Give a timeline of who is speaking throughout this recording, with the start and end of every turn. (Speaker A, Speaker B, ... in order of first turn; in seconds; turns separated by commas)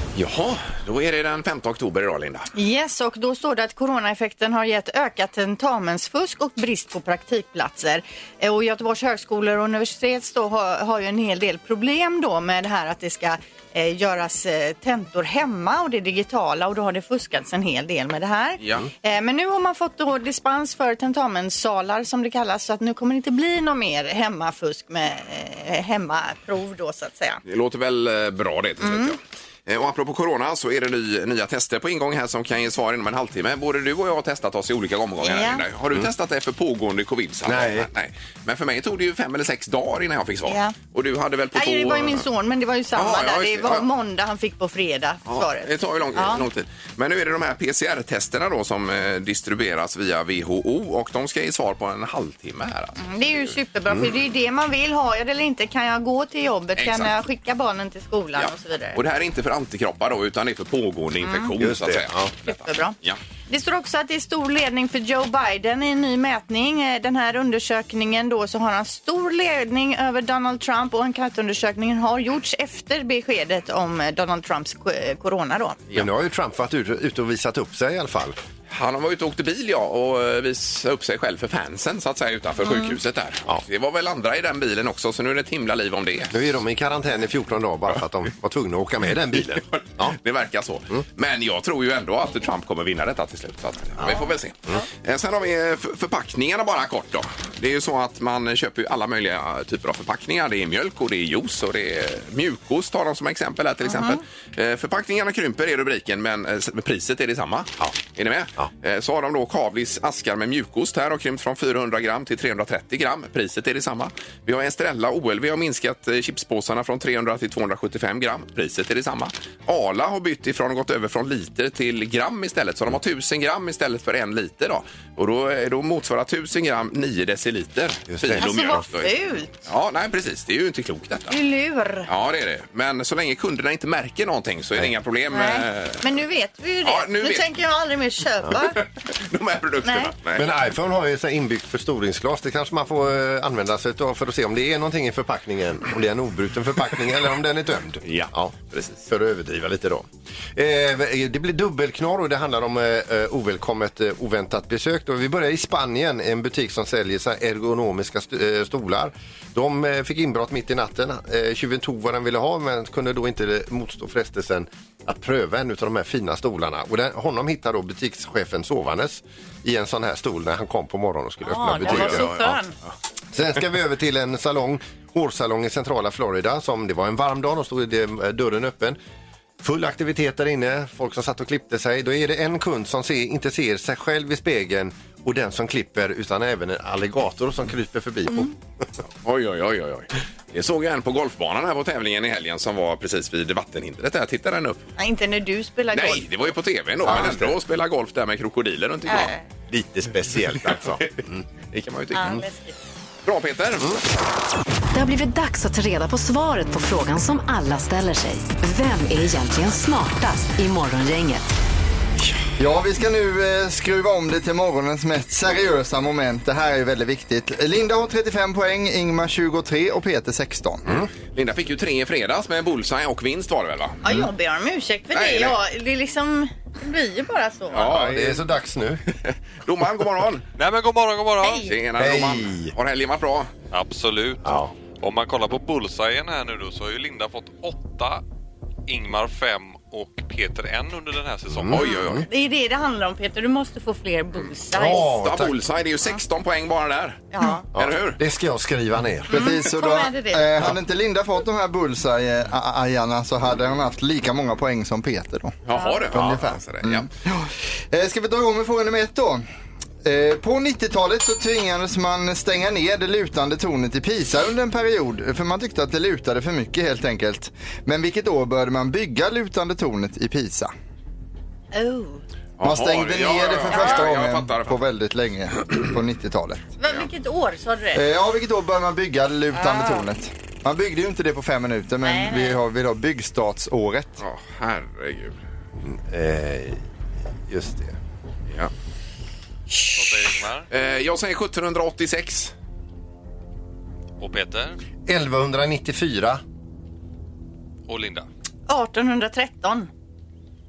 Speaker A: 0.1-2.5, Speaker B: 2.5-27.4, Speaker A: 18.6-18.9, Speaker A: 27.4-42.2, Speaker B: 28.8-29.1, Speaker B: 35.2-35.6, Speaker C: 37.4-37.9, Speaker B: 40.5-40.7, Speaker B: 41.5-46.4, Speaker A: 42.9-43.9, Speaker A: 45.3-53.0, Speaker B: 53.0-59.0, Speaker A: 56.8-57.1, Speaker A: 58.4-63.2, Speaker B: 61.2-61.5, Speaker C: 61.6-62.3, Speaker B: 62.5-63.0, Speaker B: 63.5-75.8, Speaker C: 75.9-78.4, Speaker A: 78.7-86.4, Speaker B: 82.6-83.0, Speaker C: 86.3-90.2, Speaker A: 89.4-131.3, Speaker B: 103.8-104.2, Speaker C: 128.1-128.8, Speaker B: 128.4-129.5, Speaker B: 131.3-132.1, Speaker A: 132.1-136.0, Speaker B: 135.3-138.8, Speaker A: 136.8-137.5, Speaker A: 138.6-140.5, Speaker B: 139.8-140.1, Speaker C: 140.3-148.5, Speaker A: 148.0-149.1, Speaker C: 149.1-172.4, Speaker B: 171.4-172.7, Speaker A: 171.8-172.6, Speaker C: 173.3-179.0, Speaker C: 179.6-188.5, Speaker A: 189.2-194.8, Speaker B: 195.0-196.5, Speaker A: 195.9-199.3, Speaker C: 197.0-197.5, Speaker B: 199.1-199.4, Speaker C: 199.7-201.4, Speaker A: 200.7-201.2, Speaker A: 201.7-202.4, Speaker B: 202.1-202.8, Speaker A: 203.2-204.0, Speaker D: 204.9-211.5, Speaker E: 212.6-220.9, Speaker A: 221.3-224.0, Speaker B: 224.0-227.9, Speaker A: 225.1-225.6, Speaker A: 227.7-228.4, Speaker C: 227.8-229.0, Speaker A: 229.2-230.4, Speaker F: 230.6-231.7, Speaker B: 231.4-231.7, Speaker A: 231.6-233.5, Speaker C: 232.0-232.7, Speaker F: 233.7-238.2, Speaker C: 234.4-234.7, Speaker F: 238.9-241.8, Speaker C: 241.5-242.2, Speaker A: 241.7-242.3, Speaker B: 241.8-245.1, Speaker C: 244.7-245.6, Speaker A: 244.8-247.2, Speaker B: 247.3-247.6, Speaker C: 247.7-249.5, Speaker A: 247.7-248.2, Speaker E: 249.3-255.6, Speaker B: 249.3-250.7, Speaker A: 255.6-257.1, Speaker B: 255.7-256.0, Speaker E: 256.1-259.4, Speaker E: 260.0-270.7, Speaker B: 271.7-272.2, Speaker A: 272.6-274.8, Speaker E: 272.6-276.6, Speaker B: 273.7-274.1, Speaker B: 276.8-278.0, Speaker E: 277.9-284.2, Speaker B: 279.5-280.1, Speaker B: 282.0-282.6, Speaker A: 284.2-285.4, Speaker C: 285.8-286.8, Speaker C: 287.5-287.9, Speaker F: 289.9-290.7, Speaker A: 290.7-292.5, Speaker F: 294.2-294.8, Speaker C: 295.1-296.4, Speaker F: 297.9-298.3, Speaker B: 298.7-299.9